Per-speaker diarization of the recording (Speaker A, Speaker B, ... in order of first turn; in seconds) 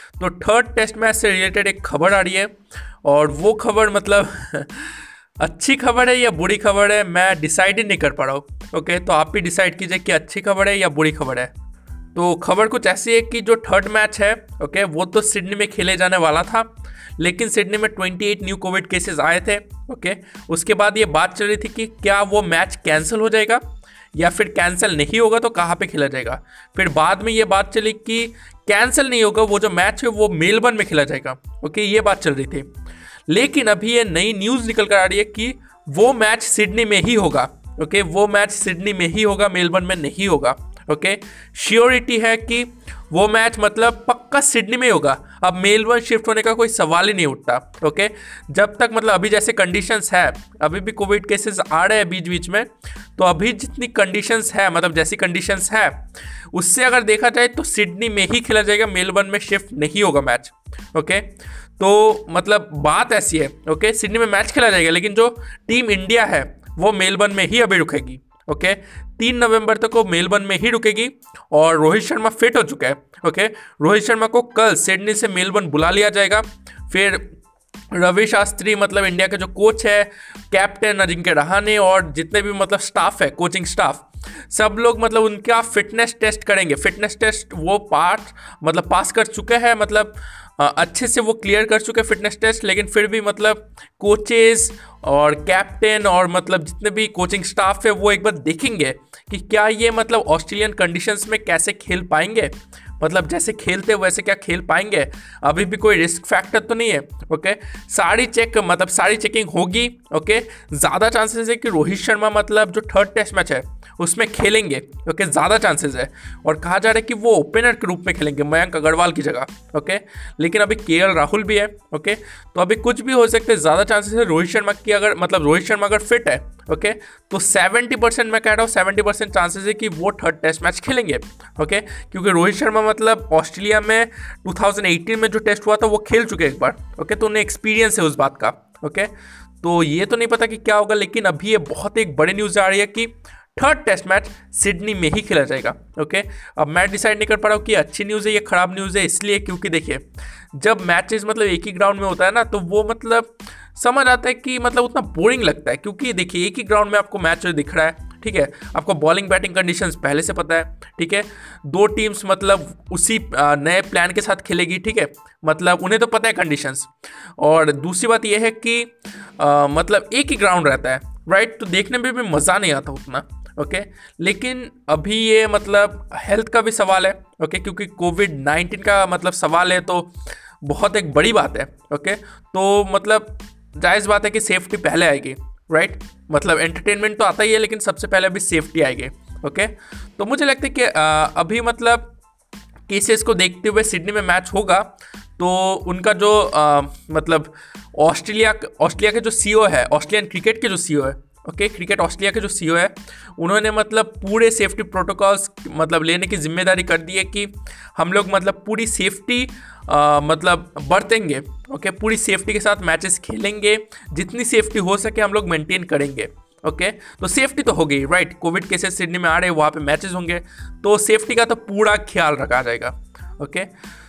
Speaker A: 0.2-11.5, 12.2-32.7, 33.3-77.4, 77.9-192.1, 192.9-223.7